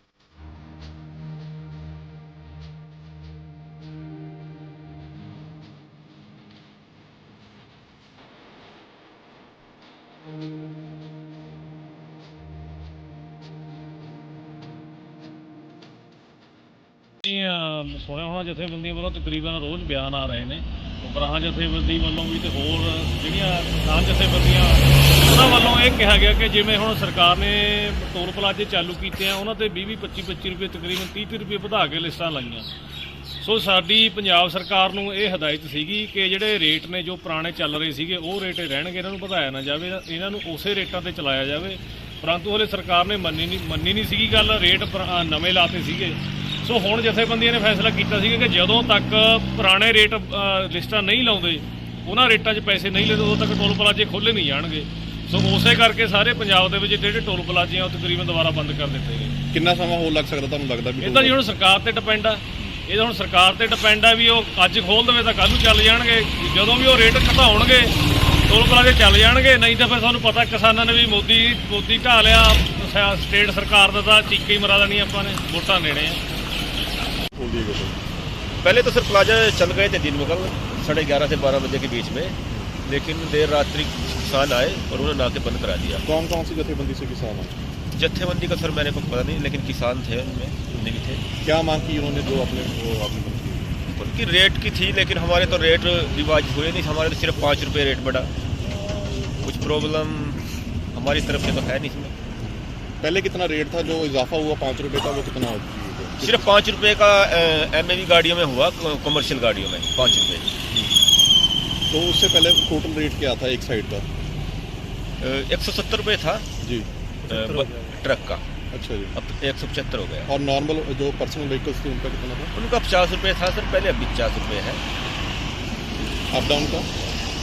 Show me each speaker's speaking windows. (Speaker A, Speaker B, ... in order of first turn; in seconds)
Speaker A: 17.2-32.7, 33.4-59.4, 61.0-68.0, 68.5-76.2
Speaker B: 59.5-61.4, 77.3-77.9, 86.0-87.5, 91.4-93.8, 102.4-106.5, 110.7-111.0, 111.9-114.0, 116.6-116.9, 118.7-119.1, 120.3-122.5, 126.3-126.9
Speaker C: 78.6-86.0, 87.9-91.2, 93.9-98.3, 99.2-102.1, 106.2-110.5, 115.2-116.4, 117.3-118.4, 119.2-120.3, 122.5-124.8